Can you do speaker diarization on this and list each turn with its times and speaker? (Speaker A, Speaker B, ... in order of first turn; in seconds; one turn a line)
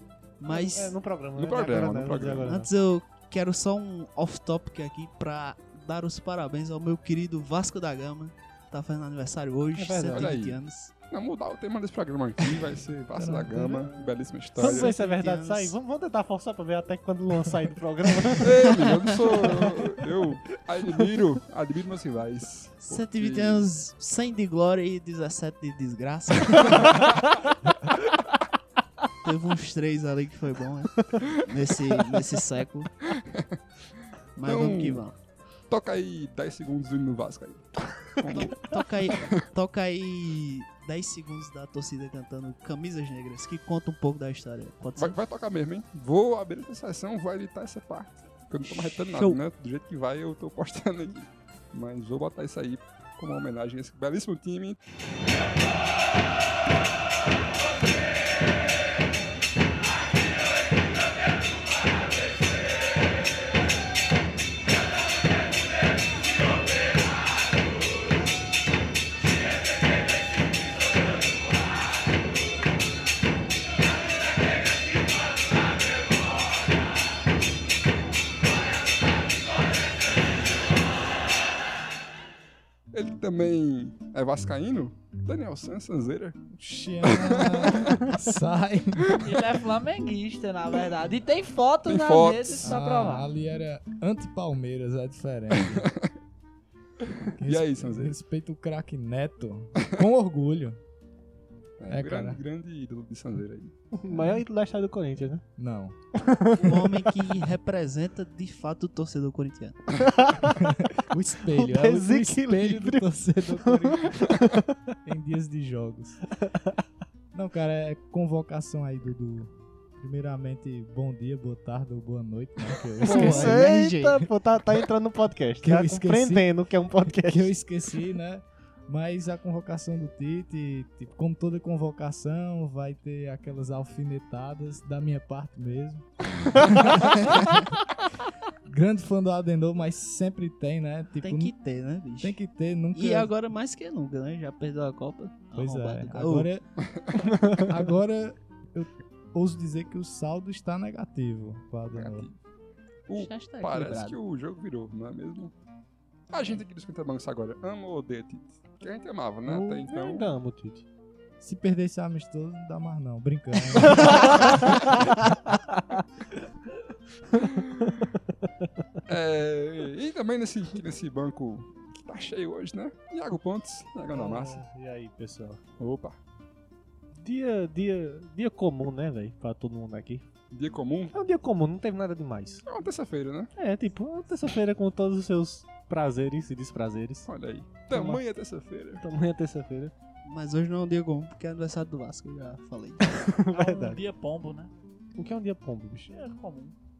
Speaker A: 0.4-1.0
Speaker B: 0.5-2.7
Speaker C: 1.4-2.6
Speaker A: 2.4-10.9
Speaker B: 9.7-10.3
Speaker C: 10.1-10.6
Speaker C: 11.1-14.9
Speaker D: 13.1-13.9
Speaker A: 14.6-15.7
Speaker B: 14.6-19.7
Speaker A: 18.3-19.7
Speaker C: 18.4-23.6
Speaker A: 22.8-27.4
Speaker C: 26.6-27.2
Speaker A: 29.2-33.0
Speaker C: 33.1-33.6
Speaker A: 34.4-35.1
Speaker C: 34.4-35.0
Speaker C: 35.7-39.4
Speaker A: 38.3-45.1
Speaker C: 45.0-54.8
Speaker C: 82.9-86.4
Speaker D: 86.6-89.2
Speaker C: 87.0-88.0
Speaker E: 89.2-93.3
Speaker C: 91.8-92.7
Speaker D: 92.6-95.9
Speaker C: 95.7-96.1
Speaker C: 97.0-98.2
Speaker D: 97.4-100.8
Speaker C: 101.8-103.7
Speaker D: 101.9-102.4
Speaker B: 103.9-105.4
Speaker D: 104.1-104.4
Speaker D: 105.6-106.0
Speaker B: 106.2-107.2
Speaker A: 106.6-110.0
Speaker B: 110.0-110.7
Speaker D: 110.5-114.3
Speaker B: 111.5-114.9
Speaker D: 115.0-116.2
Speaker B: 116.4-116.8
Speaker D: 117.3-124.3
Speaker B: 122.9-127.5
Speaker A: 123.0-124.2
Speaker D: 125.6-126.5
Speaker D: 127.0-137.4
Speaker D: 138.7-141.5
Speaker A: 141.2-142.4
Speaker D: 142.2-143.3
Speaker A: 142.9-146.5
Speaker D: 145.6-146.6
Speaker C: 146.8-147.2
Speaker B: 147.3-147.6
Speaker D: 147.6-152.3
Speaker C: 151.9-152.3
Speaker C: 153.1-155.5
Speaker A: 153.2-154.2
Speaker C: 156.3-160.3
Speaker B: 159.4-160.8
Speaker D: 161.4-164.7
Speaker B: 163.8-166.0
Speaker C: 167.3-168.0
Speaker B: 167.8-168.7
Speaker C: 169.1-174.6
Speaker B: 174.1-175.6
Speaker C: 175.8-176.2
Speaker B: 177.2-180.2
Speaker C: 180.5-181.1
Speaker B: 181.1-182.6
Speaker C: 182.7-183.5
Speaker B: 183.6-187.3
Speaker C: 187.2-189.0
Speaker B: 187.9-188.2
Speaker B: 189.0-189.9
Speaker A: 190.2-193.2
Speaker B: 193.1-194.0
Speaker E: 193.5-194.7
Speaker B: 195.2-196.2
Speaker E: 196.1-196.7